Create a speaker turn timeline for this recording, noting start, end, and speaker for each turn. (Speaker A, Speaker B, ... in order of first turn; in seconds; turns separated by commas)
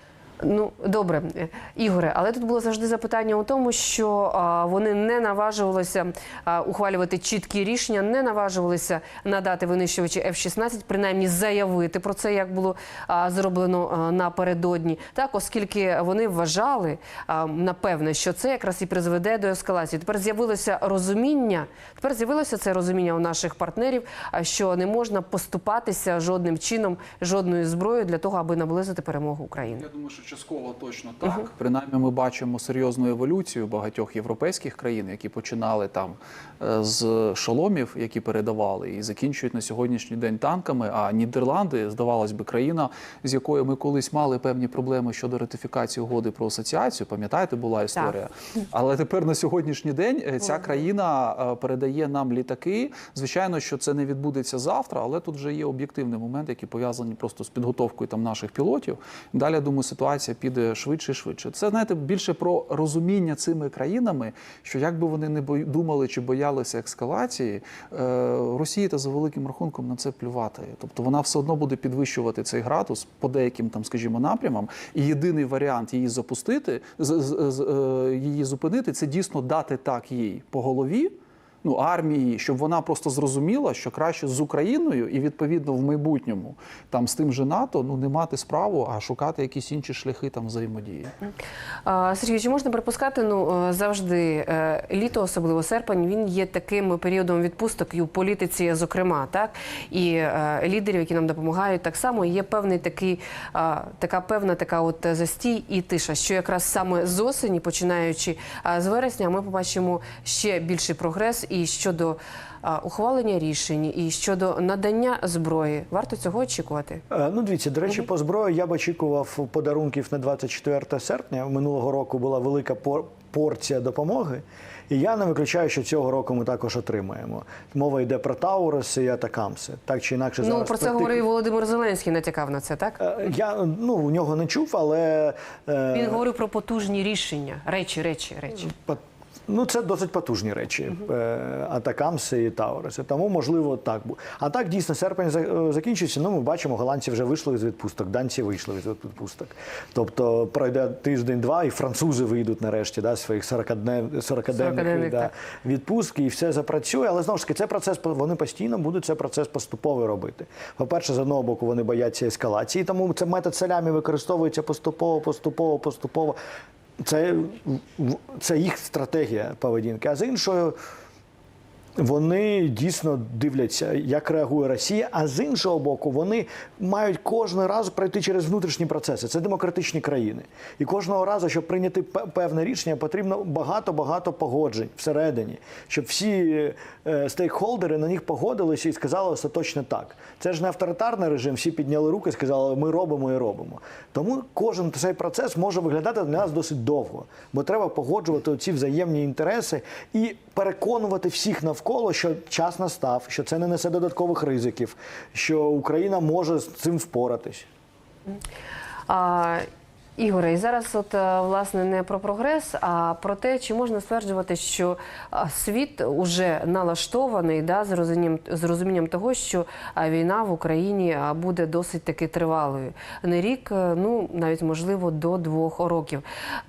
Speaker A: 0.4-29.9, Speaker B: 29.8-91.1, Speaker A: 91.8-117.0, Speaker C: 117.1-131.2, Speaker A: 130.4-133.0, Speaker C: 133.0-136.2, Speaker A: 135.9-138.7, Speaker C: 138.7-166.4, Speaker A: 154.5-155.3, Speaker C: 167.0-170.8, Speaker C: 171.9-207.7, Speaker A: 209.1-209.7, Speaker A: 210.2-226.2